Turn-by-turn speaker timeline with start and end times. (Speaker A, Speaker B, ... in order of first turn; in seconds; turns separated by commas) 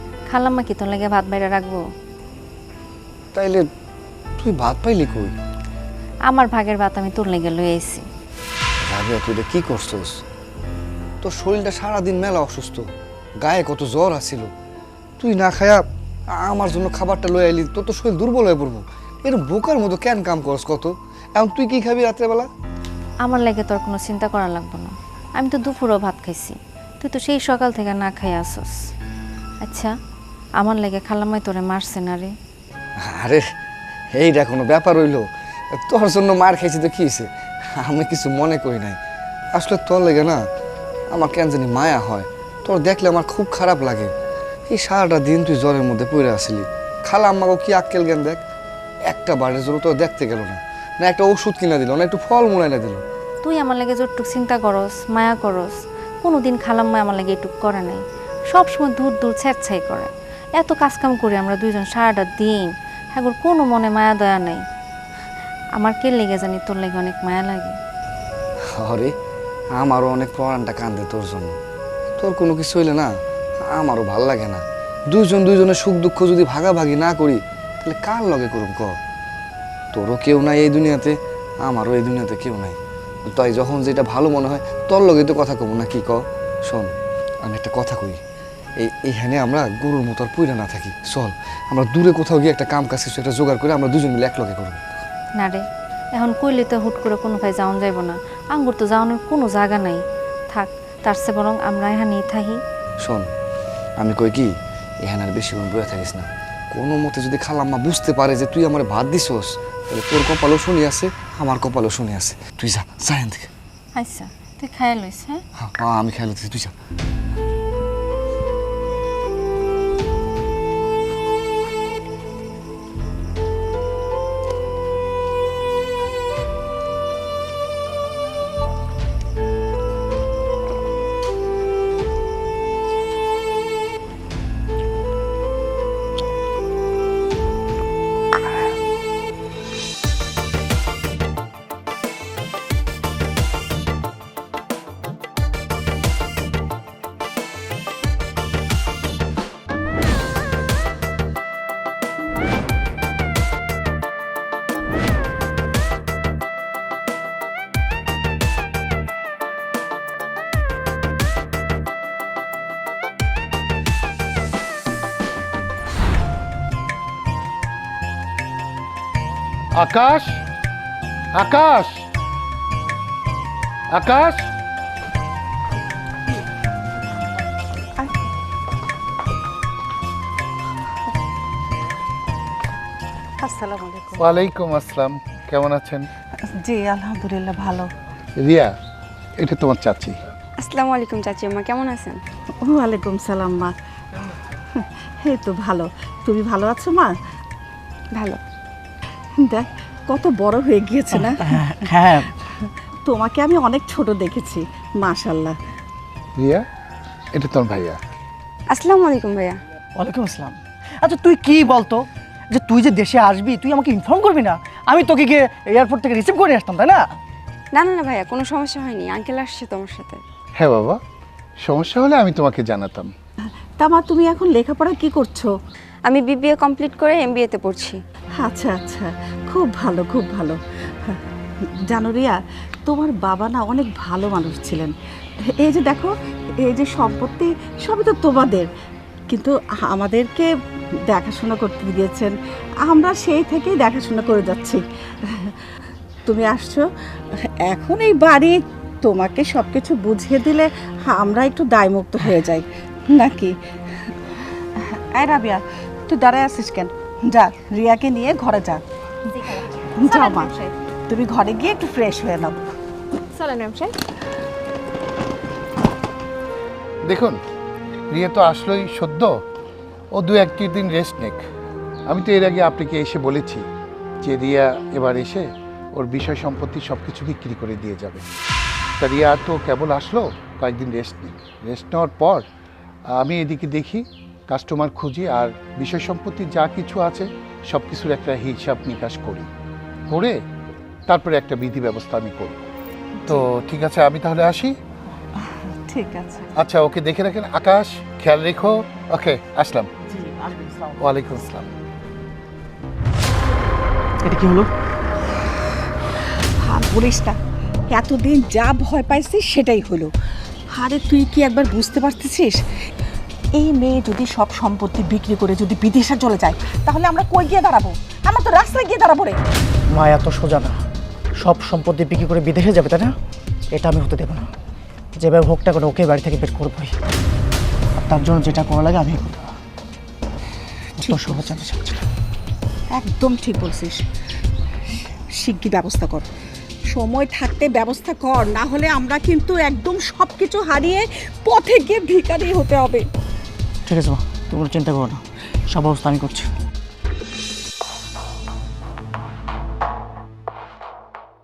Speaker A: 0.3-1.8, Speaker B: 3.3-3.6, Speaker B: 4.4-5.3, Speaker A: 6.3-8.0, Speaker B: 8.8-10.2, Speaker B: 11.2-12.8, Speaker B: 13.4-14.5, Speaker B: 15.2-15.8, Speaker B: 16.4-22.5, Speaker A: 23.2-28.7, Speaker C: 26.3-26.5, Speaker A: 29.6-29.9, Speaker A: 30.6-32.3, Speaker B: 33.0-33.5, Speaker B: 34.1-39.0, Speaker B: 39.5-40.4, Speaker B: 41.1-44.1, Speaker B: 44.7-48.4, Speaker B: 49.1-53.0, Speaker A: 53.4-55.7, Speaker A: 56.2-58.0, Speaker A: 58.5-60.1, Speaker C: 59.4-59.9, Speaker A: 60.6-62.6, Speaker C: 60.7-61.0, Speaker A: 63.2-64.6, Speaker A: 65.8-67.7, Speaker B: 68.7-69.1, Speaker B: 69.7-71.6, Speaker B: 72.2-73.1, Speaker B: 73.7-79.0, Speaker B: 79.9-86.9, Speaker B: 87.4-88.2, Speaker B: 88.8-94.8, Speaker A: 95.4-95.6, Speaker A: 96.2-100.0, Speaker A: 100.5-102.6, Speaker B: 103.0-103.3, Speaker B: 104.0-104.5, Speaker B: 105.0-113.5, Speaker A: 114.0-115.4, Speaker B: 115.6-116.7, Speaker D: 169.8-170.4, Speaker D: 171.3-172.0, Speaker D: 173.9-174.5, Speaker E: 183.4-184.3, Speaker D: 184.2-186.1, Speaker E: 186.6-187.9, Speaker D: 188.4-188.7, Speaker D: 189.4-190.2, Speaker F: 190.6-192.2, Speaker E: 192.6-193.7, Speaker E: 194.8-197.1, Speaker F: 198.1-198.4, Speaker E: 199.4-201.7, Speaker G: 201.1-202.3, Speaker E: 203.0-205.6, Speaker D: 206.4-206.6, Speaker D: 207.3-208.0, Speaker F: 208.7-209.6, Speaker G: 210.0-217.0, Speaker F: 217.7-220.2, Speaker D: 220.6-221.0, Speaker D: 221.7-223.1, Speaker E: 223.8-225.5, Speaker F: 226.1-228.0, Speaker E: 228.4-231.2, Speaker E: 231.9-232.3, Speaker E: 232.9-234.9, Speaker E: 235.6-236.1, Speaker E: 236.6-238.7, Speaker E: 239.3-240.5, Speaker E: 241.1-245.6, Speaker E: 246.2-246.8, Speaker E: 247.7-253.6, Speaker E: 254.8-258.8, Speaker C: 259.3-260.7, Speaker E: 260.0-260.5, Speaker E: 261.1-262.6, Speaker C: 263.3-263.9, Speaker D: 267.1-267.4, Speaker D: 268.1-269.3, Speaker D: 270.1-271.4, Speaker D: 272.1-273.6, Speaker D: 274.2-278.2, Speaker D: 279.0-282.4, Speaker D: 283.2-289.5, Speaker D: 290.1-290.3, Speaker D: 291.1-292.6, Speaker D: 293.3-294.7, Speaker E: 295.4-296.5, Speaker D: 296.6-299.9, Speaker G: 300.2-301.0, Speaker D: 301.0-301.7, Speaker G: 304.2-304.7, Speaker E: 306.6-307.4, Speaker E: 307.9-310.1, Speaker E: 310.7-312.6, Speaker E: 313.6-319.4, Speaker G: 319.9-320.8, Speaker G: 321.4-323.1, Speaker G: 323.7-324.5, Speaker G: 325.2-326.9, Speaker G: 327.9-329.5, Speaker E: 331.0-331.4, Speaker G: 331.0-332.0, Speaker E: 332.9-334.0, Speaker E: 335.4-336.3, Speaker E: 336.9-343.0, Speaker G: 343.9-346.5